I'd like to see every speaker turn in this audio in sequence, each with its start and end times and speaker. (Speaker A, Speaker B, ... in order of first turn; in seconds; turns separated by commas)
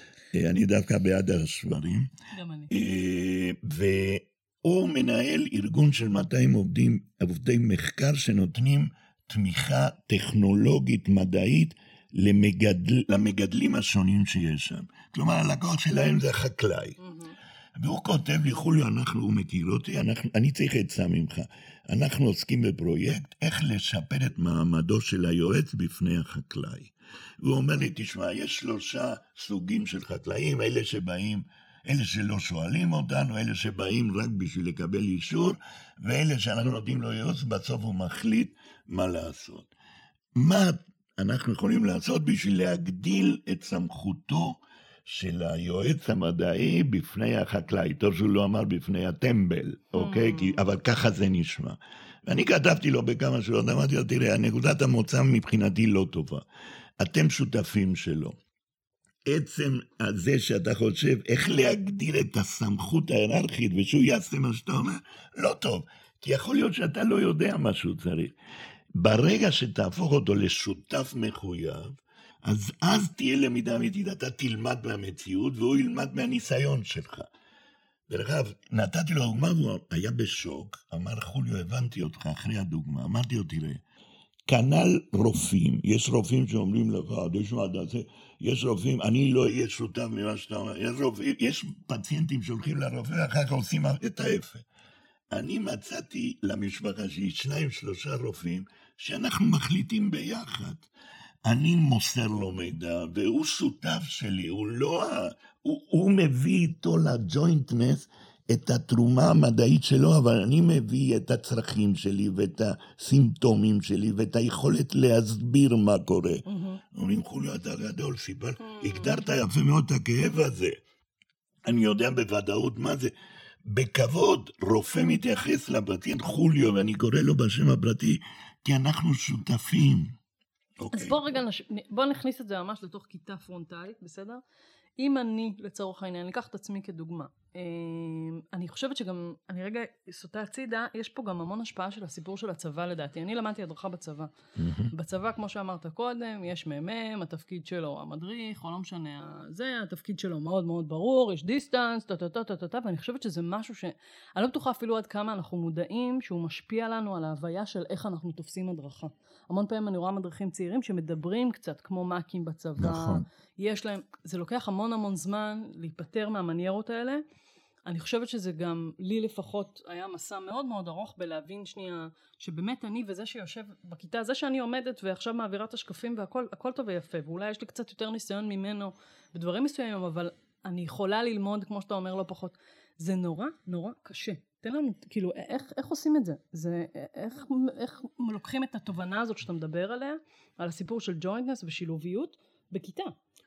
Speaker A: 0.3-2.1, Speaker B: 2.3-2.7, Speaker A: 2.7-17.0, Speaker B: 17.0-17.3, Speaker A: 17.8-39.7, Speaker A: 40.4-56.4, Speaker B: 50.0-50.6, Speaker A: 57.0-58.4, Speaker A: 59.2-68.3, Speaker A: 69.0-77.3, Speaker A: 78.1-83.8, Speaker A: 84.5-94.6, Speaker A: 95.3-100.9, Speaker A: 101.4-120.8, Speaker B: 116.5-116.8, Speaker B: 118.6-119.2, Speaker A: 121.6-130.1, Speaker A: 130.8-131.3, Speaker B: 130.9-134.4, Speaker B: 135.0-144.3, Speaker A: 144.6-144.9, Speaker B: 144.9-167.2, Speaker A: 162.8-163.2, Speaker B: 167.8-193.1